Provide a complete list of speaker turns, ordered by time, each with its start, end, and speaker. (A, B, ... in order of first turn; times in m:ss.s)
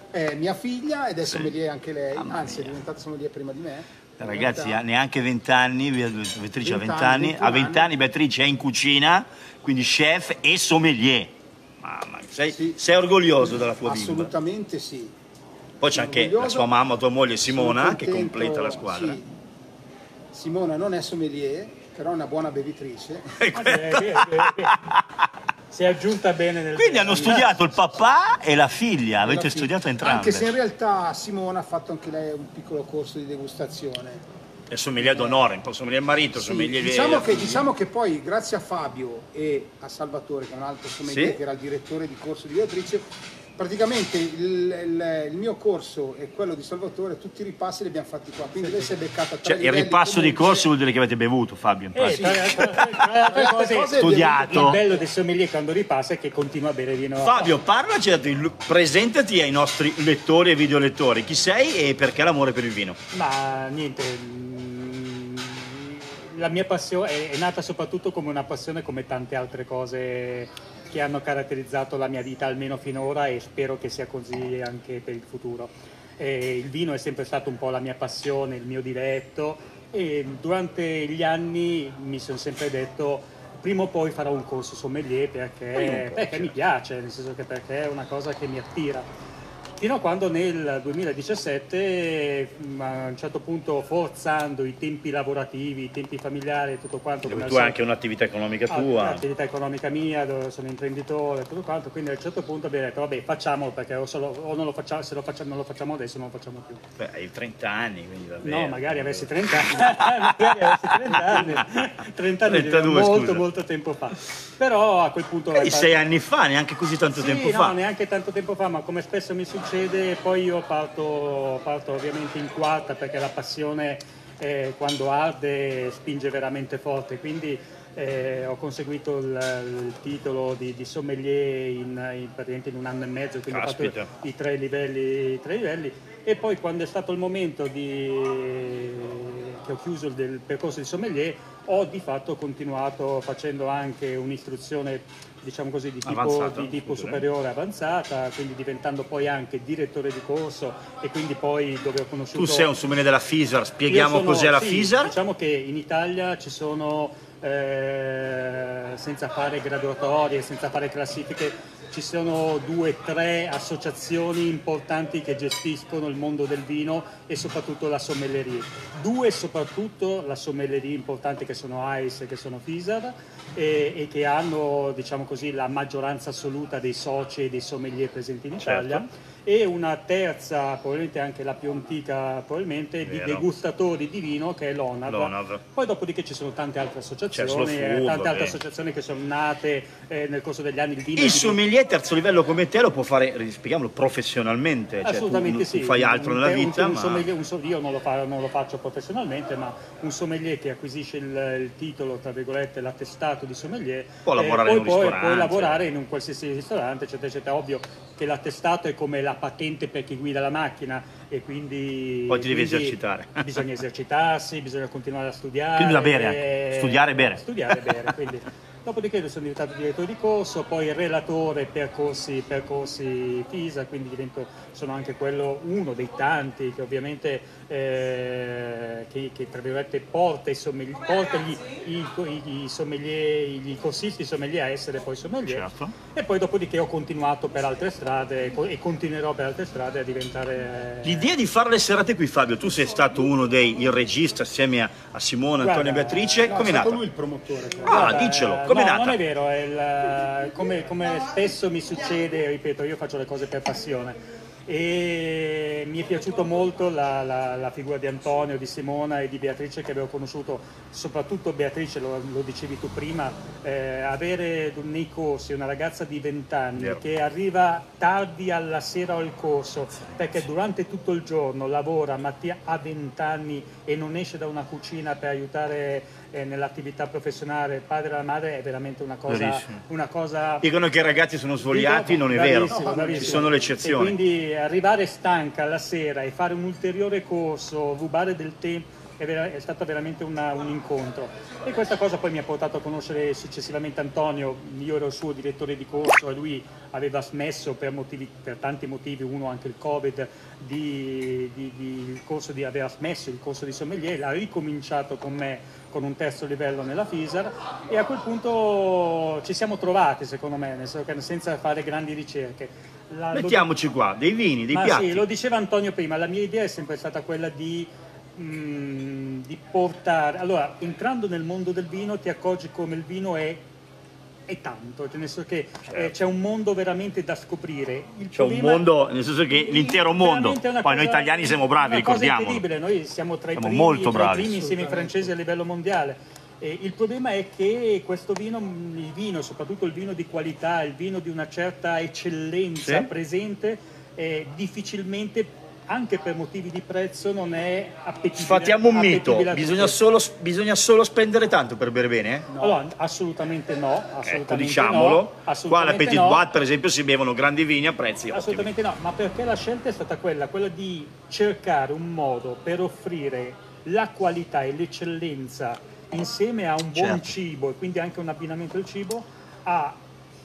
0:00.1-0:04.8 A
0:01.2-0:01.5 B
0:02.2-0:02.8 B
0:04.2-0:14.3 B
0:06.6-0:07.9 A
0:12.5-0:12.8 A
0:13.4-0:15.1 A
0:15.8-0:19.2 B
0:15.9-0:16.7 A
0:17.4-0:19.3 A
0:20.3-0:23.4 A
0:23.4-0:25.0 B
0:23.5-0:24.8 C
0:25.7-0:27.8 C
0:26.8-0:30.4 B
0:29.2-0:34.2 A
0:34.7-0:37.7 B
0:35.0-0:35.4 A
0:36.3-0:43.0 A
0:41.0-0:41.4 B
0:43.6-0:50.7 A
0:48.6-0:48.9 C
0:49.4-0:52.8 B
0:51.9-0:57.5 C
0:52.0-0:55.0 A
0:54.0-0:54.8 B
0:57.2-1:03.0 B
1:03.1-1:29.1 C
1:25.8-1:26.6 B
1:29.8-1:37.8 C
1:37.2-1:39.2 B
1:38.7-1:46.8 C
1:47.0-1:51.6 B
1:48.4-1:56.0 C
1:52.4-1:53.4 B
1:55.5-1:57.8 B
1:57.1-2:32.7 C
2:13.5-2:14.1 B
2:26.0-2:27.2 B
2:32.3-2:35.1 B
2:33.9-3:11.6 C
2:58.6-2:59.0 B
3:03.0-3:03.4 B
3:05.1-3:05.6 B
3:07.3-3:08.6 B
3:11.2-3:17.3 B
3:15.0-4:01.3 C
3:24.2-3:25.8 B
3:32.3-3:33.7 B
3:35.8-3:37.4 B
3:55.5-3:55.9 B
4:01.0-4:07.0 B
4:05.6-4:06.4 C
4:06.4-4:08.1 A
4:07.8-4:09.2 B
4:07.8-4:40.7 C
4:26.8-4:27.0 B
4:39.3-4:39.8 B
4:40.6-4:44.2 B
4:41.6-5:13.7 C
4:42.5-4:43.7 A
5:13.3-5:15.2 B
5:14.7-5:23.6 C
5:24.5-5:28.9 C
5:28.3-5:32.6 B
5:29.5-5:50.0 C
5:33.6-5:34.7 B
5:34.6-5:35.3 A
5:42.8-5:43.1 B
5:48.4-5:52.5 B
5:52.5-5:52.8 A
5:52.6-5:56.4 C
5:54.2-5:58.7 B
5:58.3-6:10.0 C
6:06.9-6:07.3 B